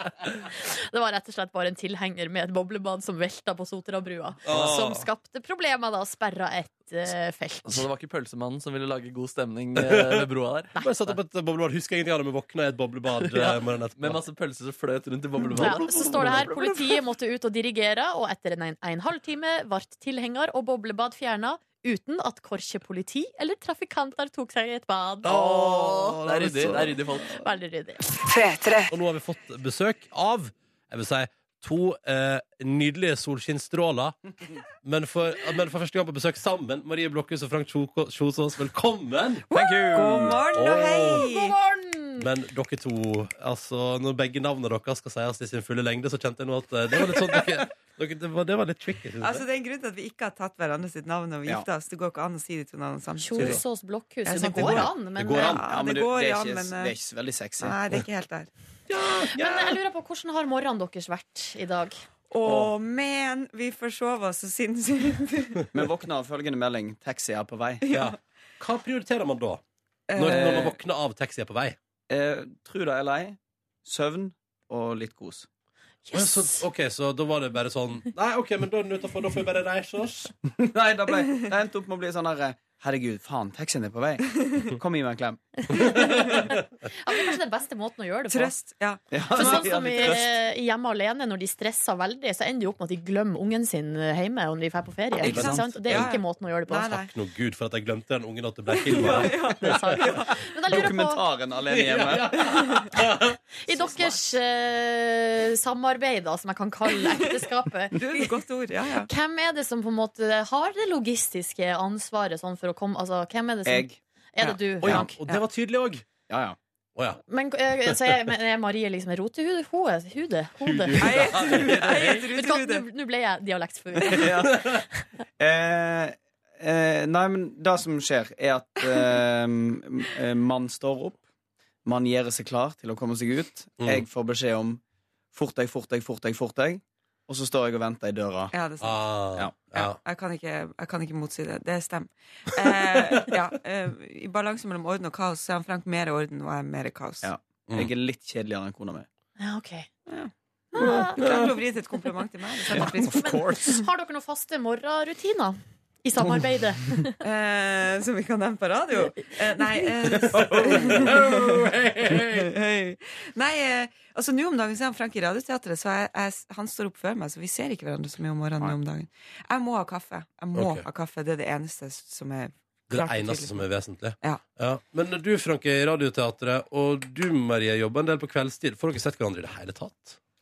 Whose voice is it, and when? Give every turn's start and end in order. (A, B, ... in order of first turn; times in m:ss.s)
0:00.5-0:07.8 A
0:04.4-0:05.0 B
0:04.5-0:04.8 C
0:07.6-0:10.7 C
0:09.8-0:10.2 B
0:10.8-0:14.2 B
0:13.2-0:16.8 C
0:15.4-0:16.6 B
0:15.6-0:25.4 A
0:25.2-0:27.0 B
0:25.2-0:27.4 C
0:27.4-0:28.1 A
0:28.9-0:34.2 B
0:34.8-0:39.5 B
0:39.5-0:41.6 D
0:39.5-0:40.4 E
0:40.5-0:41.2 B
0:40.7-0:42.3 A
0:42.2-0:49.4 B
0:49.2-0:53.6 D
0:53.2-0:55.6 A
0:54.2-0:56.9 D
0:54.6-0:54.9 E
0:55.2-0:55.6 B
0:55.7-0:57.8 E
0:57.6-0:58.5 D
0:58.9-0:59.8 B
0:59.3-1:01.9 A
1:02.3-1:05.6 D
1:02.4-1:02.7 B
1:05.7-1:07.8 E
1:07.8-1:08.2 D
1:07.9-1:09.6 B
1:10.1-1:10.7 D
1:10.2-1:11.8 B
1:10.2-1:10.7 E
1:12.1-1:15.5 E
1:16.1-1:16.6 A
1:16.1-1:20.3 B
1:20.6-1:26.1 E
1:25.7-1:28.5 A
1:26.0-1:26.2 B
1:28.3-1:30.1 D
1:29.1-1:30.3 E
1:29.3-1:36.9 A
1:35.2-1:36.0 E
1:35.2-1:37.1 D
1:35.3-1:36.1 B
1:36.9-1:39.7 B
1:38.7-1:40.4 D
1:39.1-1:41.2 A
1:40.7-1:42.4 E
1:41.7-1:43.4 B
1:42.4-1:42.8 D
1:43.6-1:48.3 A
1:47.9-1:49.1 D
1:49.0-1:55.1 A
1:53.6-1:54.0 E
1:54.8-1:56.0 B
1:54.9-1:55.4 D
1:56.3-1:56.6 E
1:57.0-1:57.2 B
1:57.3-2:04.8 A
1:57.8-1:58.1 B
2:00.6-2:02.2 B
2:01.0-2:02.8 D
2:04.1-2:04.5 E
2:04.4-2:04.8 B
2:05.4-2:11.2 E
2:11.8-2:14.8 E
2:13.8-2:14.0 B
2:15.3-2:18.5 E
2:18.5-2:19.2 D
2:18.8-2:20.0 B
2:19.3-2:19.6 E
2:19.8-2:27.3 D
2:27.2-2:29.1 E
2:29.4-2:29.9 A
2:30.1-2:33.6 D
2:30.7-2:31.4 A
2:32.7-2:33.7 E
2:32.8-2:37.2 A
2:37.2-2:53.6 D
2:40.2-2:42.5 B
2:50.5-2:50.8 B
2:52.9-3:00.2 B